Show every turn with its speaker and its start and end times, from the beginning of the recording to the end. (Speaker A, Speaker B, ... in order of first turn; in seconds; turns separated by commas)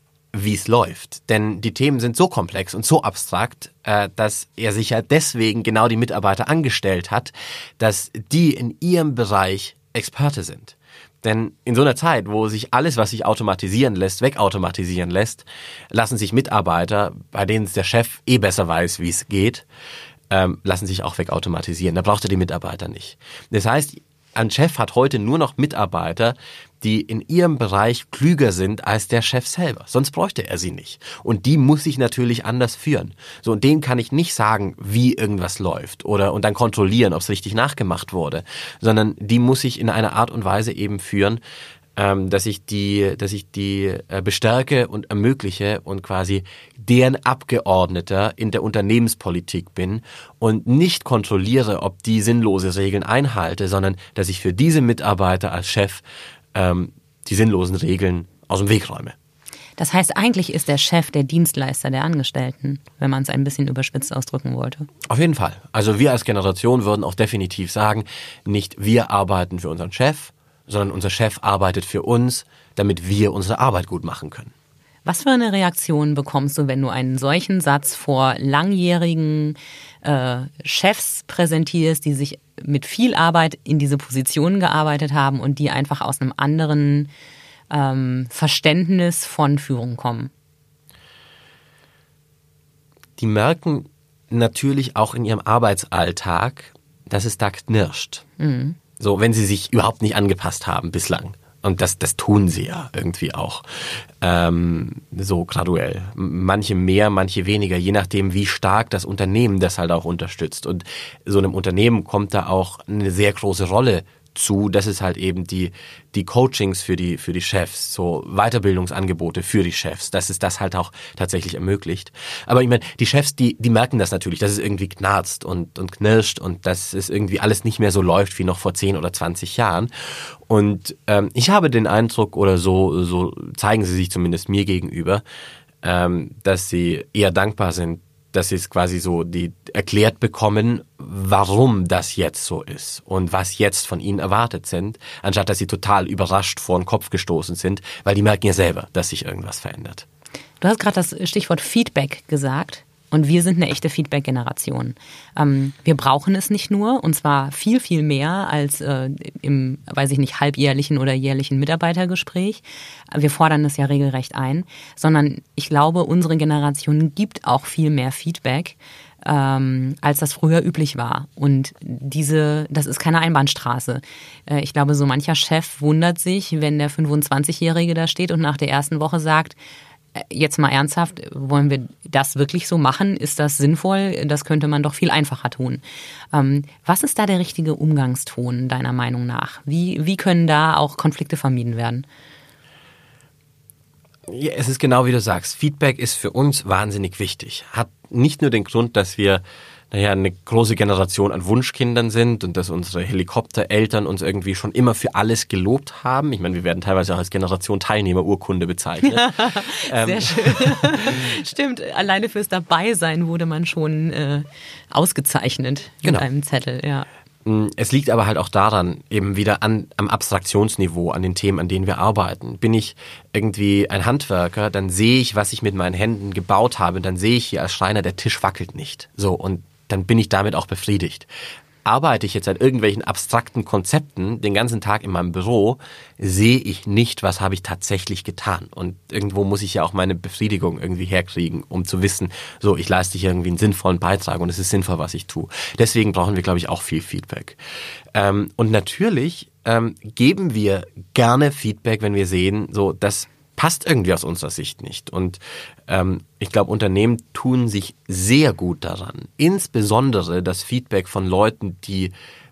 Speaker A: 0.3-19.7, Speaker A: 20.3-41.4, Speaker A: 42.0-56.0, Speaker A: 56.5-59.1, Speaker B: 59.8-64.9, Speaker A: 65.1-74.5, Speaker B: 75.0-87.1, Speaker B: 87.7-90.3, Speaker A: 93.2-98.2, Speaker B: 98.4-98.8, Speaker A: 99.0-129.9, Speaker A: 130.5-135.2, Speaker A: 135.8-150.1, Speaker B: 150.6-179.6, Speaker B: 180.2-192.1, Speaker A: 194.3-211.2, Speaker B: 209.0-217.1, Speaker A: 217.4-231.3, Speaker A: 231.8-247.6, Speaker A: 248.2-262.1